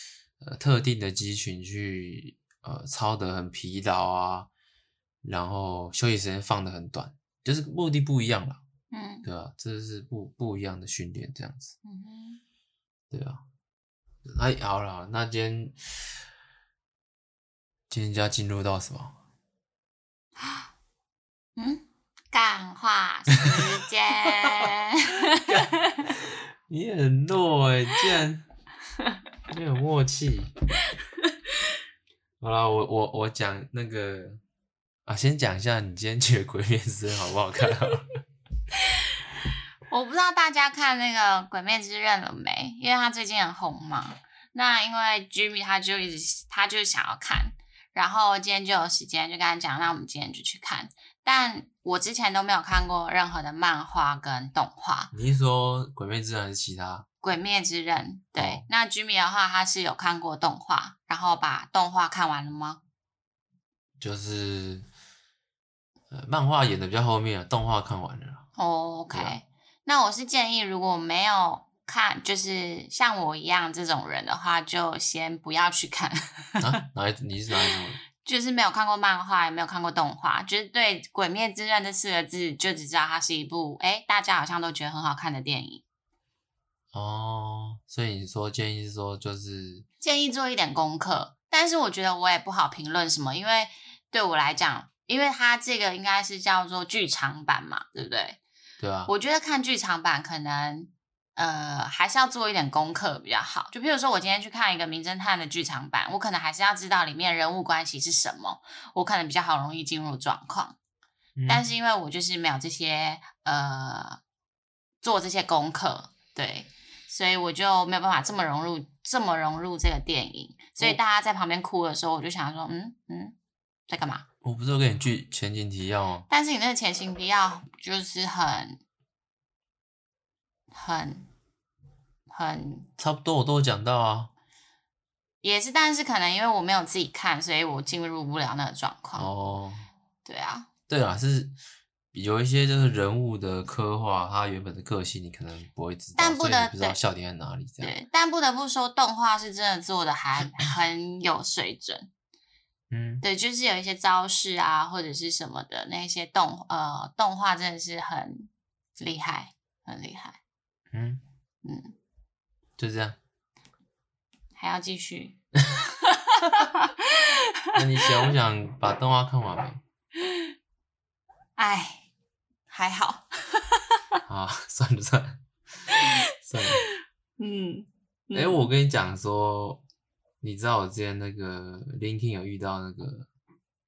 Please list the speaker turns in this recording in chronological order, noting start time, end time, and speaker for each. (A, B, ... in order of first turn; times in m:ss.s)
0:00.4-0:04.5 A
0:05.2-0:08.6 A
0:08.9-0:09.3 B
0:09.2-0:11.7 A
0:11.8-0:12.4 B
0:13.1-0:13.4 A
0:14.3-0:15.8 A
0:17.9-0:19.2 A
0:21.6-0:26.0 B
0:24.3-0:24.7 A
0:25.3-0:28.5 A
0:29.5-0:30.5 A
0:32.4-0:34.4 A
0:35.1-0:38.1 A
0:39.9-0:55.1 B
0:55.1-0:57.1 A
0:57.2-1:02.8 B
0:58.4-0:58.6 A
1:04.0-1:04.9 A
1:06.1-1:08.5 A
1:08.6-1:16.6 B
1:16.6-1:18.0 A
1:18.2-1:25.8 B
1:26.9-1:29.9 A
1:30.0-1:38.4 B
1:38.8-1:39.1 A
1:39.1-1:50.8 B
1:51.4-1:51.6 A
1:51.5-1:54.2 B
1:55.0-2:03.4 B
2:03.9-2:04.2 B
2:04.4-2:06.3 A
2:06.3-2:08.8 B
2:10.7-2:11.3 B
2:12.3-2:12.9 B
2:13.0-2:14.3 A
2:15.4-2:19.3 B
2:19.2-2:19.9 A
2:20.2-2:20.7 B
2:20.9-2:21.6 A
2:22.1-2:27.9 A
2:26.2-2:27.0 B
2:27.8-2:32.1 B
2:32.9-2:33.2 A
2:33.2-2:40.4 B
2:40.9-2:41.2 A
2:41.6-2:41.9 B
2:42.8-2:43.2 A
2:44.6-2:45.4 B
2:46.0-2:48.1 B
2:47.7-2:49.8 A
2:51.6-2:52.1 B
2:52.7-2:53.8 B
2:54.3-2:55.4 A
2:55.9-2:56.1 B
2:56.0-2:56.8 A
2:56.7-2:58.7 B
2:58.3-2:59.8 A
3:00.4-3:03.3 A